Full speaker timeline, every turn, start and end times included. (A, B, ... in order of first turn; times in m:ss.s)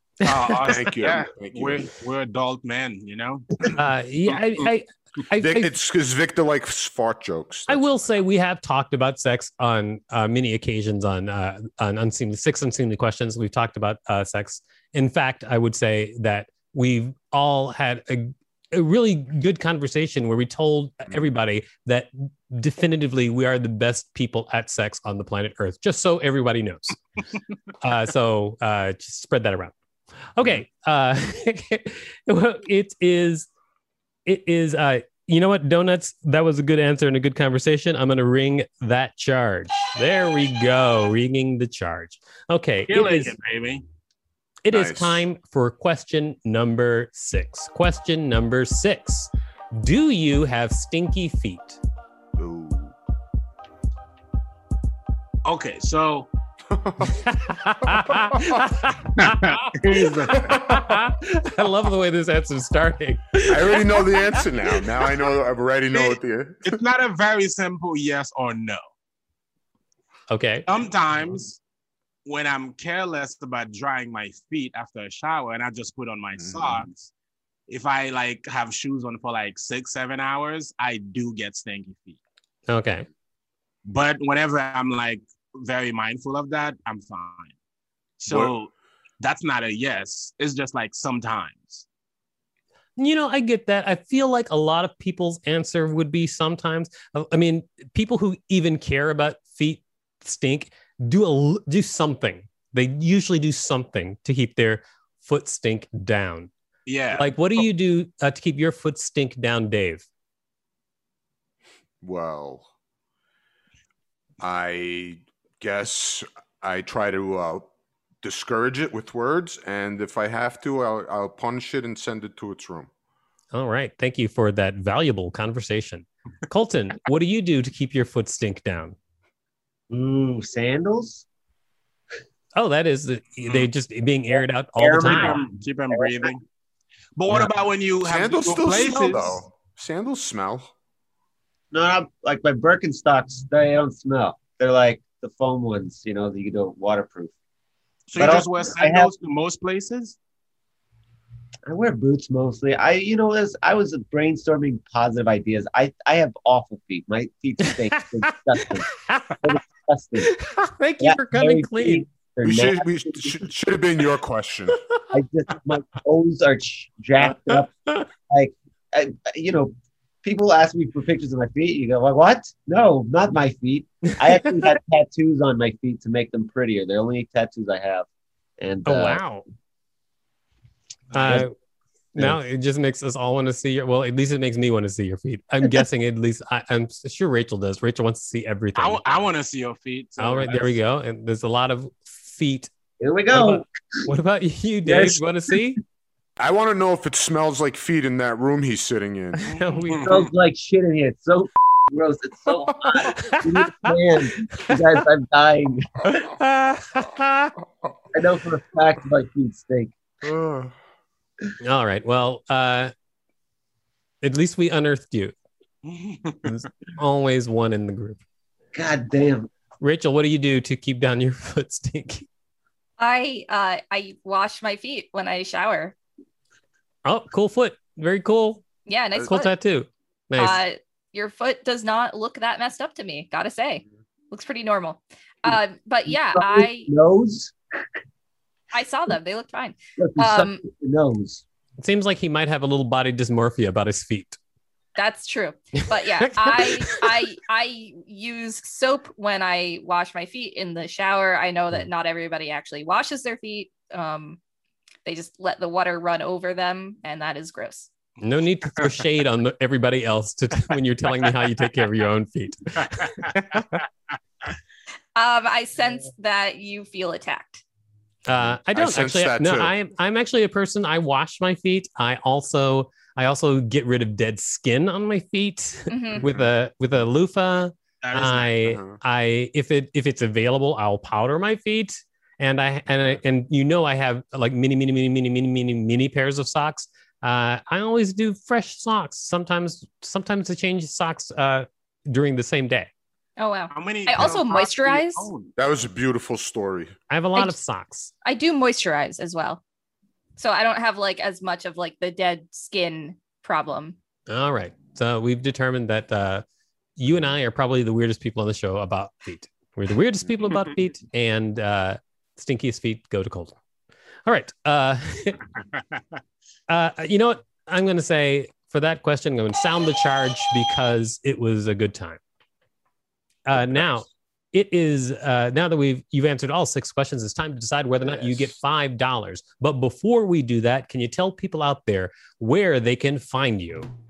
0:00.2-0:00.6 A
0:00.2-0:03.8 B
0:00.6-0:01.9 C
0:03.8-0:05.7 A
0:05.4-0:08.1 C
0:07.7-0:27.0 A
0:27.8-0:29.7 A
0:30.4-0:33.5 A
0:34.3-0:43.4 A
0:42.9-0:43.8 B
0:44.6-0:51.8 A
0:44.7-0:45.2 C
0:52.4-0:53.0 C
0:55.4-0:56.3 B
0:56.7-0:58.8 C
0:57.0-1:04.4 A
0:59.2-1:00.6 B
1:00.3-1:01.0 C
1:03.5-1:06.8 C
1:05.9-1:08.8 B
1:10.3-1:10.7 A
1:10.7-1:11.6 B
1:12.2-1:17.1 B
1:16.4-1:16.9 C
1:17.7-1:22.2 B
1:22.7-1:23.1 A
1:23.9-1:27.5 B
1:28.2-1:31.8 B
1:28.3-1:28.5 C
1:33.0-1:46.5 A
1:46.9-1:47.6 B
1:47.2-1:50.1 A
1:52.0-1:52.7 C
1:54.4-1:57.7 C
1:58.2-2:02.9 C
2:03.5-2:09.0 A
2:09.9-2:11.3 D
2:12.6-2:15.4 A
2:14.8-2:16.3 D
2:15.0-2:16.4 B
2:17.2-2:19.4 B
2:18.0-2:20.7 C
2:21.7-2:27.3 D
2:28.1-2:30.2 B
2:28.2-2:29.1 D
2:31.7-2:40.3 D
2:38.6-2:39.4 A
2:40.2-2:42.0 A
2:41.0-2:43.4 D
2:42.4-2:44.8 C
2:45.1-2:58.1 D
2:47.5-2:48.0 A
2:58.6-2:59.2 D
2:58.9-2:59.4 A
3:01.1-3:01.4 B
3:01.1-3:01.5 A
3:02.2-3:09.0 A
3:08.8-3:10.8 B
3:10.2-3:12.7 A
3:13.0-3:13.7 D
3:13.3-3:15.8 A
3:14.8-3:15.6 D
3:16.4-3:19.5 C
3:19.4-3:20.3 A
3:19.8-3:20.3 B
3:20.0-3:26.1 D
3:23.0-3:23.9 A
3:24.5-3:25.0 A
3:26.0-3:27.6 A
3:28.1-3:30.0 D
3:30.2-3:30.8 C
3:31.6-3:32.9 A
3:34.2-3:35.4 A
3:35.8-3:36.5 B
3:36.4-3:38.2 A
3:38.7-3:39.5 D
3:39.8-3:42.3 A
3:43.0-3:46.0 E
3:47.0-3:48.6 A
3:48.9-3:49.5 E
3:49.2-3:50.6 A
3:50.4-3:56.9 E
3:55.5-3:57.6 D
3:58.7-4:00.6 E
4:00.0-4:01.4 D
4:01.8-4:04.4 A
4:05.0-4:14.4 E
4:05.8-4:07.0 A
4:15.0-4:17.9 E
4:18.2-4:23.8 A
4:25.2-4:27.6 E
4:28.3-4:52.9 A
4:28.3-4:29.7 C
4:35.9-4:36.2 E
4:36.2-4:36.5 C
4:38.0-4:38.5 B
4:38.6-4:39.0 C
4:53.4-4:55.3 E
4:53.7-4:55.5 B
4:55.6-4:56.9 C
4:57.1-4:58.1 A
4:58.2-4:59.6 E
5:00.4-5:04.0 E
5:04.3-5:06.4 A
5:07.0-5:13.6 A
5:14.3-5:15.4 A
5:16.7-5:22.2 A
5:23.5-5:33.9 A
5:23.6-5:23.9 C
5:28.0-5:28.6 C